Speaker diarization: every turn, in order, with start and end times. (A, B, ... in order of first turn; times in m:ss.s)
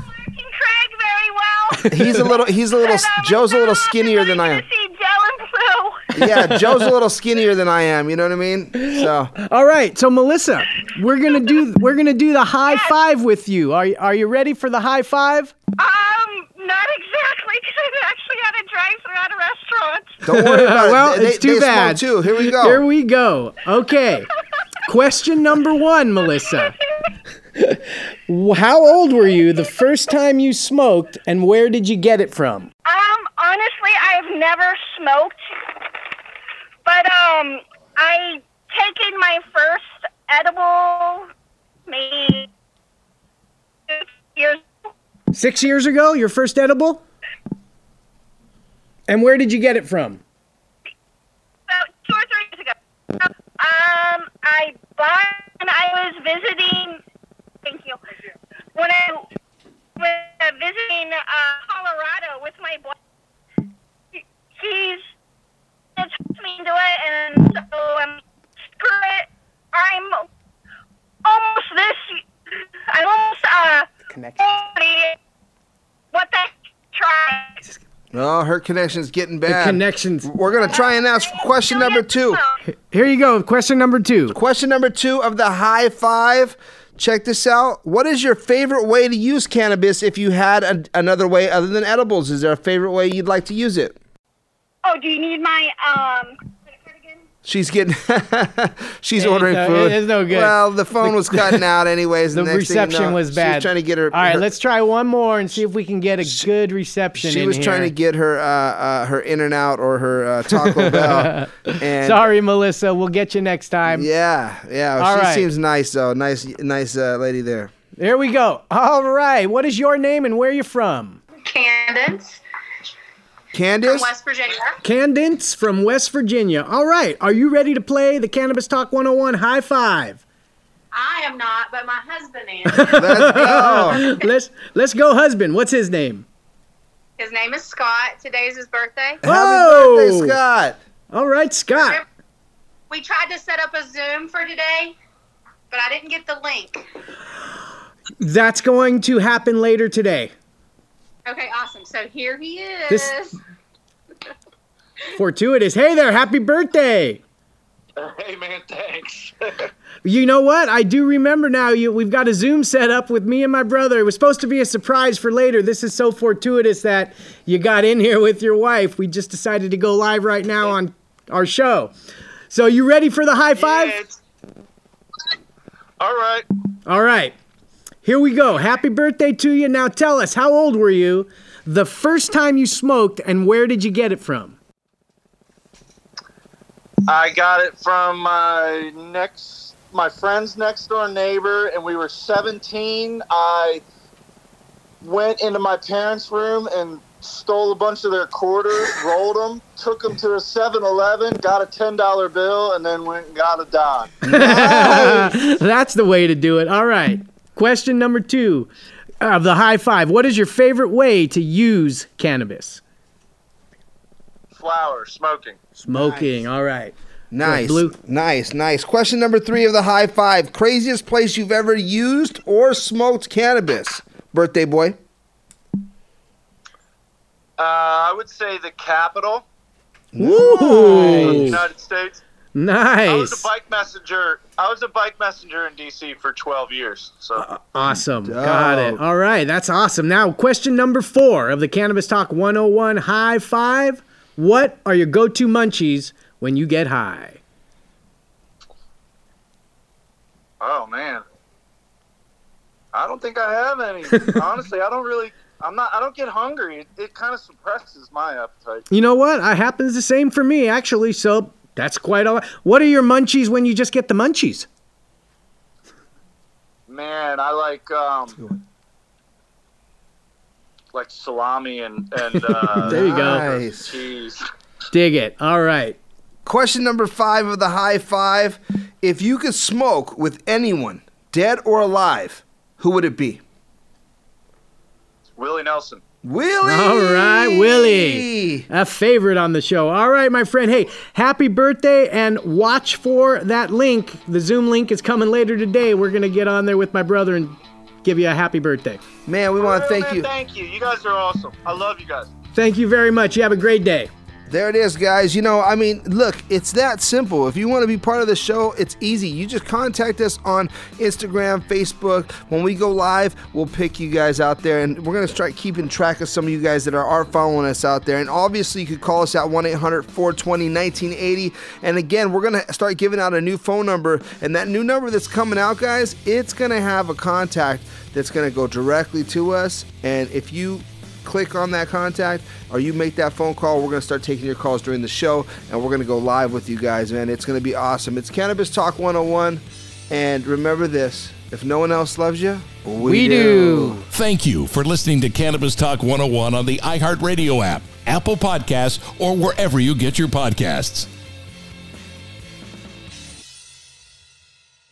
0:00.1-0:01.9 A
0:01.7-0:02.3 B
0:01.9-0:04.6 C
0:02.8-0:06.0 A
0:06.1-0:09.3 C
0:06.2-0:06.9 B
0:08.8-0:15.5 B
0:12.7-0:12.9 A
0:15.8-0:20.2 A
0:20.2-0:22.8 C
0:20.3-0:24.3 B
0:24.9-0:26.7 B
0:27.6-0:32.7 B
0:32.8-0:35.4 A
0:36.8-0:41.3 A
0:41.9-0:42.5 A
0:43.9-0:44.6 A
0:45.3-0:47.0 B
0:49.1-0:50.2 B
0:51.7-0:57.0 A
0:57.6-0:58.0 A
0:58.8-0:59.3 A
1:00.0-1:02.9 A
1:04.1-1:05.1 A
1:06.0-1:08.2 A
1:08.7-1:10.3 A
1:11.2-1:12.2 A
1:12.9-1:13.9 A
1:14.1-1:14.6 B
1:14.4-1:15.2 A
1:16.1-1:17.6 A
1:18.1-1:22.4 C
1:19.5-1:20.3 B
1:20.6-1:22.6 A
1:22.7-1:24.4 B
1:24.3-1:34.0 C
1:34.8-1:36.4 A
1:37.4-1:44.5 C
1:39.2-1:41.6 B
1:42.3-1:47.9 B
1:46.2-1:46.5 C
1:47.2-1:52.3 C
1:50.8-1:54.1 B
1:53.9-1:57.7 C
1:55.0-1:55.5 B
1:58.0-2:01.2 B
2:01.4-2:02.4 D
2:03.5-2:04.1 C
2:03.8-2:04.8 D
2:04.8-2:10.2 B
2:10.9-2:14.0 D
2:12.7-2:16.2 B
2:12.9-2:14.0 C
2:17.2-2:19.2 D
2:19.2-2:20.8 C
2:19.2-2:20.3 B
2:21.1-2:22.0 B
2:22.9-2:25.0 D
2:25.7-2:26.8 D
2:28.2-2:30.3 B
2:31.2-2:33.4 D
2:32.9-2:33.3 B
2:35.1-2:37.2 B
2:38.0-2:39.7 E
2:40.0-2:51.9 B
2:52.5-2:54.0 B
2:53.5-2:54.1 E
2:56.0-2:56.4 E
2:56.8-2:57.4 B
2:58.0-3:04.6 B
3:07.1-3:13.8 E
3:15.0-3:24.1 E
3:24.2-3:28.7 B
3:24.3-3:25.4 C
3:29.2-3:32.8 B
3:34.5-3:35.6 E
3:35.8-3:37.9 B
3:35.9-3:36.4 C
3:37.3-3:45.0 C
3:47.6-3:49.4 E
3:50.1-3:51.6 C
3:50.2-3:51.6 B
3:50.8-3:52.2 E
3:52.5-3:53.4 B
3:53.0-3:57.4 E
3:57.4-4:07.4 B
3:58.2-3:59.0 C
4:10.6-4:11.2 E
4:12.9-4:18.9 E
4:18.9-4:24.7 B
4:26.9-4:28.4 E
4:28.4-4:28.6 C
4:30.9-4:34.4 E
4:32.8-4:33.4 B
4:32.8-4:34.0 C
4:34.9-4:36.0 B
4:36.4-4:43.4 C
4:45.4-4:46.0 E
4:46.2-4:48.7 C
4:46.6-4:59.0 B
4:59.3-5:00.3 C
4:59.6-5:02.3 E
5:02.5-5:04.1 B
5:04.5-5:44.1 C
5:43.0-5:44.0 B
5:44.1-5:51.1 F